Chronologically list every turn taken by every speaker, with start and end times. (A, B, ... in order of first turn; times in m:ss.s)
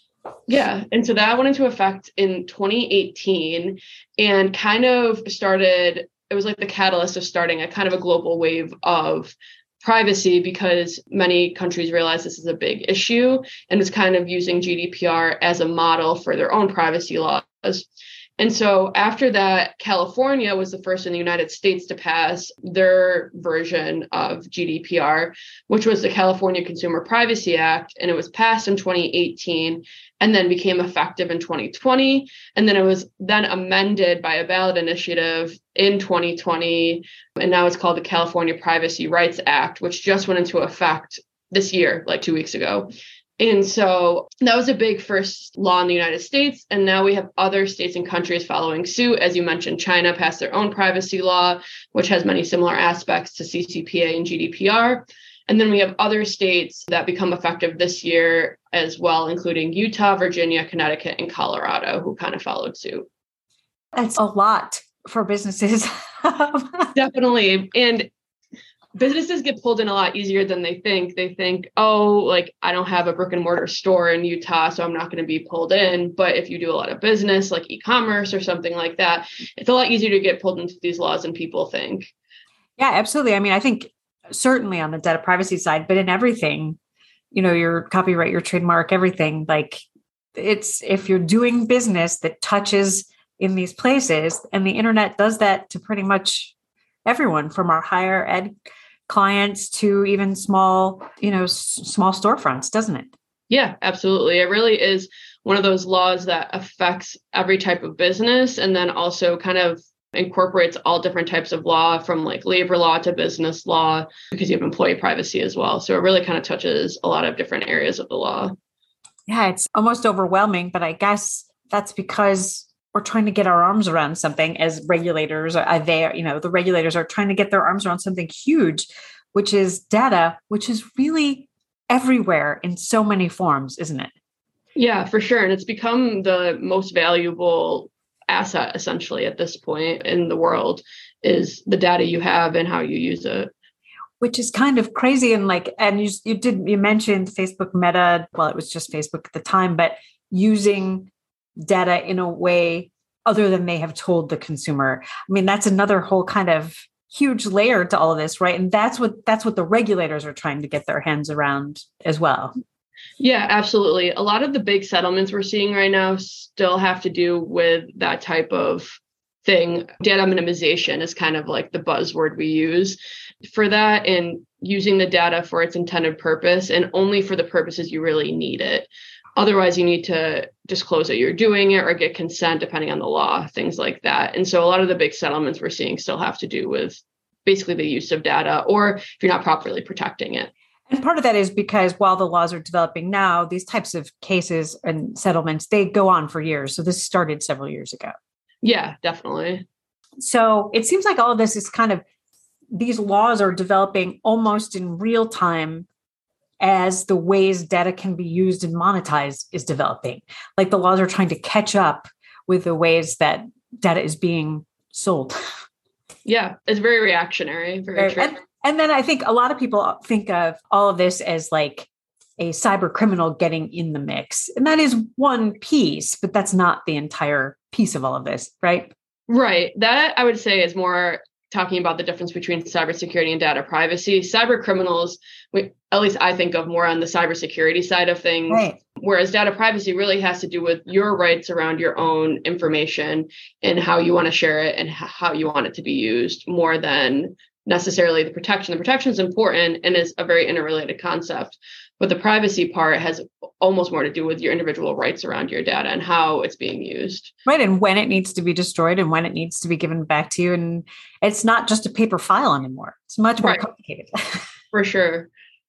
0:00.5-0:17.9 A
0:18.4-1:03.1 A
1:04.0-1:06.9 B
1:06.9-1:08.1 A
1:08.9-1:22.1 A
1:22.8-1:26.8 B
1:27.3-1:29.8 B
1:30.4-1:36.5 B
1:37.0-1:38.5 B
1:39.1-1:43.1 B
1:43.5-1:58.5 A
1:59.3-2:14.1 B
2:14.7-2:23.5 A
2:24.2-2:31.1 B
2:31.6-2:42.5 B
2:43.2-3:10.5 A
3:10.9-3:18.1 B
3:18.6-3:19.6 A
3:20.2-3:22.0 B
3:22.7-3:25.9 B
3:26.6-3:35.4 B
3:36.2-3:38.4 A
3:38.0-3:48.9 B
3:49.3-4:17.3 A
3:58.5-3:58.8 B
4:17.4-4:24.4 B
4:24.7-4:25.3 A